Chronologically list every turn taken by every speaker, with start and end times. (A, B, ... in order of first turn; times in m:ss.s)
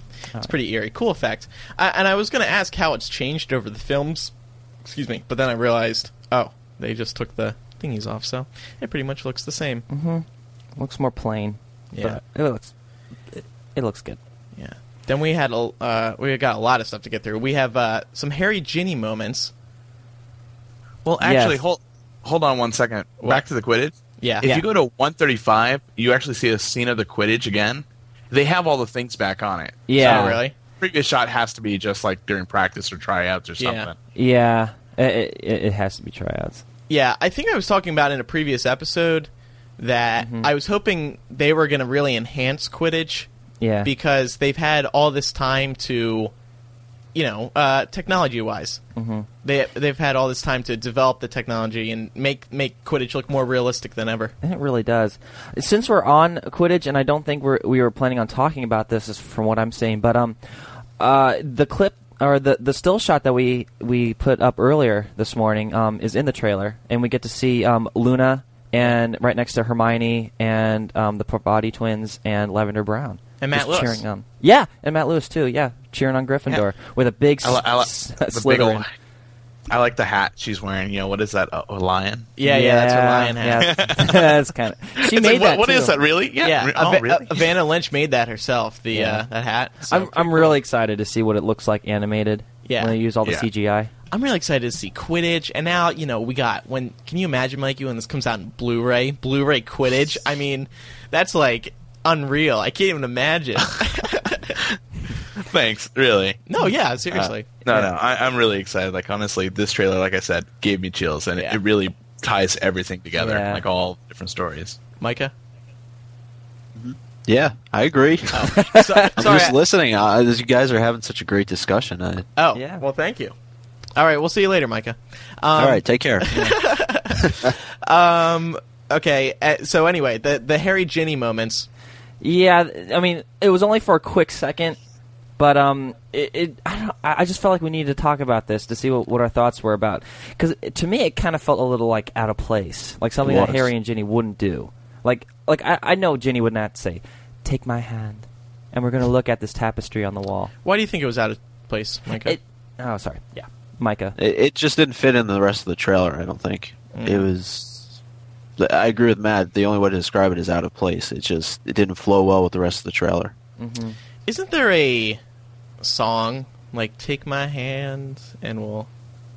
0:00.4-0:04.3 A
0:04.8-0:09.9 A
0:09.9-0:12.7 B
0:11.9-0:12.2 A
0:13.3-0:14.2 B
0:14.6-0:19.5 A
0:21.0-0:34.0 C
0:21.2-0:21.6 B
0:24.2-0:24.5 A
0:29.9-0:30.4 B
0:30.0-0:30.5 A
0:33.6-0:33.9 A
0:34.1-0:36.6 B
0:36.9-0:43.3 A
0:40.2-0:40.5 B
0:43.6-0:43.9 B
0:43.8-0:46.3 A
0:47.1-0:48.8 A
0:49.0-0:49.3 B
0:49.4-0:54.3 A
0:54.4-1:18.8 B
1:13.4-1:14.0 A
1:17.4-1:18.9 C
1:19.7-1:22.3 C
1:22.4-1:23.8 A
1:22.4-1:26.0 B
1:23.6-1:24.4 C
1:25.0-1:27.6 C
1:26.4-1:30.6 A
1:28.9-1:29.2 B
1:29.8-1:33.9 B
1:32.6-1:33.0 A
1:34.1-1:44.6 A
1:45.4-1:46.4 C
1:46.5-1:47.9 A
1:47.1-1:54.8 C
1:53.2-1:53.6 B
1:55.0-1:55.3 A
1:56.8-2:02.3 D
1:58.3-1:59.6 A
1:58.5-1:59.2 B
2:02.4-2:03.3 A
2:02.5-2:02.8 B
2:04.0-2:11.7 A
2:05.6-2:06.3 D
2:06.3-2:06.6 B
2:07.2-2:07.5 D
2:12.2-2:14.8 B
2:15.4-2:30.5 B
2:23.2-2:23.7 D
2:30.6-2:32.4 A
2:32.2-2:34.2 B
2:34.2-2:38.0 D
2:37.0-2:37.3 A
2:38.6-2:43.3 D
2:43.6-2:44.0 B
2:44.2-2:45.2 A
2:45.8-2:48.9 A